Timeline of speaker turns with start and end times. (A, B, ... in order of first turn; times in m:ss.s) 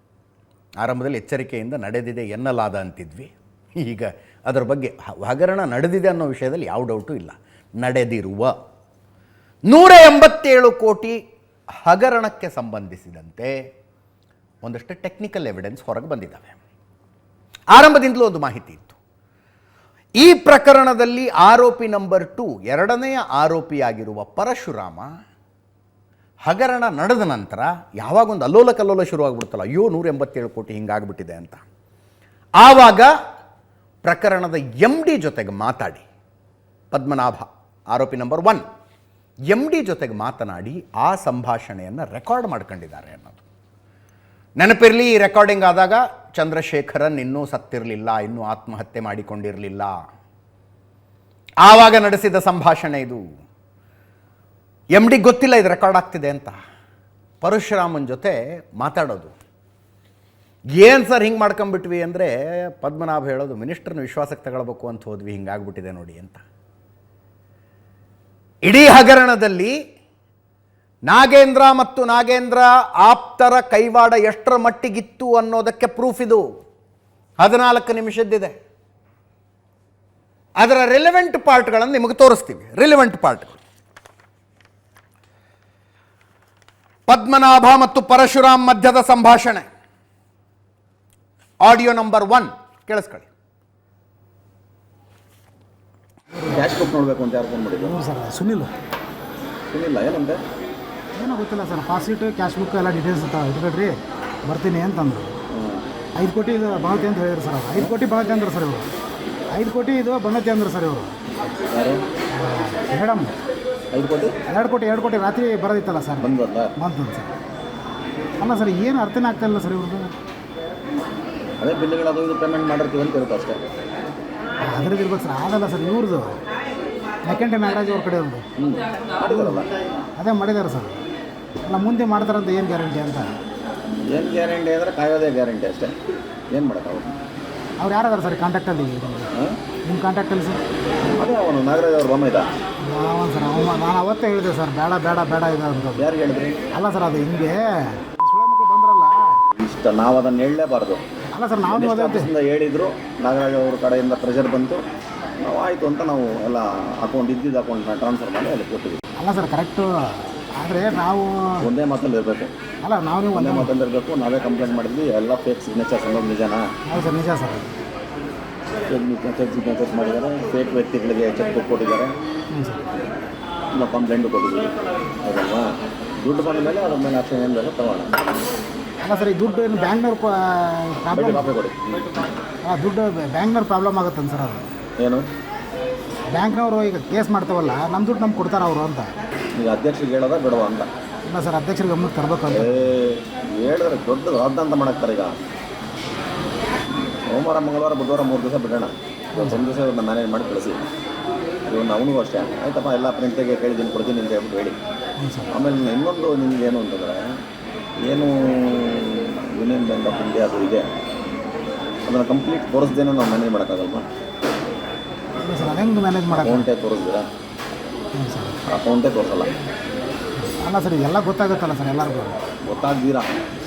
0:00.8-0:08.5 A
0:09.7-0:11.2 A
0:11.8-0:13.5 A
0:14.6-0:16.5 A
0:17.7-0:19.0 A
0:20.2-0:25.1 A
0:26.5-0:31.6 A
0:32.6-0:33.1 A
0:34.0-0:36.0 A
0:36.9-0:38.6 A
0:39.5-0:43.4 A
0:44.6-0:50.0 A
0:51.6-0:53.2 A
0:55.0-0:56.6 A
0:57.4-0:59.3 A
1:00.8-1:06.4 A
1:08.6-1:09.8 A
1:11.1-1:16.4 A
1:17.4-1:18.5 A
1:20.6-1:23.6 A
1:27.1-1:29.6 A
1:31.6-1:33.3 A
1:36.3-1:36.7 B
1:36.5-1:38.0 C
1:37.8-1:38.7 B
1:39.7-1:40.4 C
1:41.2-1:44.0 B
1:44.5-1:45.3 B
1:45.5-1:45.8 C
1:46.2-1:48.9 B
1:49.5-1:51.2 B
1:51.7-1:52.0 C
1:52.3-1:53.3 B
1:53.9-1:54.3 C
1:54.5-1:57.3 B
1:56.2-1:56.7 C
1:58.4-2:00.1 B
2:01.6-2:03.6 C
2:04.6-2:06.4 B
2:07.2-2:08.4 B
2:08.6-2:09.7 C
2:10.2-2:10.9 B
2:11.7-2:13.3 B
2:14.1-2:16.0 C
2:16.5-2:17.2 C
2:17.8-2:19.3 B
2:19.3-2:19.6 C
2:19.8-2:20.6 B
2:21.2-2:22.5 C
2:22.8-2:26.1 B
2:26.0-2:26.6 C
2:26.7-2:29.4 B
2:29.5-2:31.0 C
2:31.3-2:32.3 B
2:31.7-2:34.8 C
2:35.4-2:39.0 C
2:39.2-2:41.7 B
2:41.6-2:42.5 C
2:42.8-2:43.7 B
2:43.3-2:46.7 C
2:46.9-2:47.7 B
2:48.9-2:52.1 C
2:52.5-2:52.8 B
2:53.7-2:55.7 C
2:56.2-2:58.2 C
2:59.0-3:01.5 B
3:01.1-3:02.1 C
3:02.6-3:04.6 B
3:05.0-3:05.3 C
3:06.3-3:09.1 B
3:09.6-3:10.9 C
3:11.3-3:12.9 B
3:12.5-3:15.4 C
3:16.9-3:20.9 C
3:19.3-3:19.6 B
3:21.7-3:24.8 C
3:25.2-3:25.5 B
3:25.5-3:27.4 C
3:28.0-3:30.9 C
3:32.1-3:34.1 C
3:35.4-3:36.7 B
3:36.3-3:37.3 C
3:38.2-3:38.6 B
3:38.7-3:39.5 C
3:40.4-3:42.3 B
3:42.7-3:43.3 C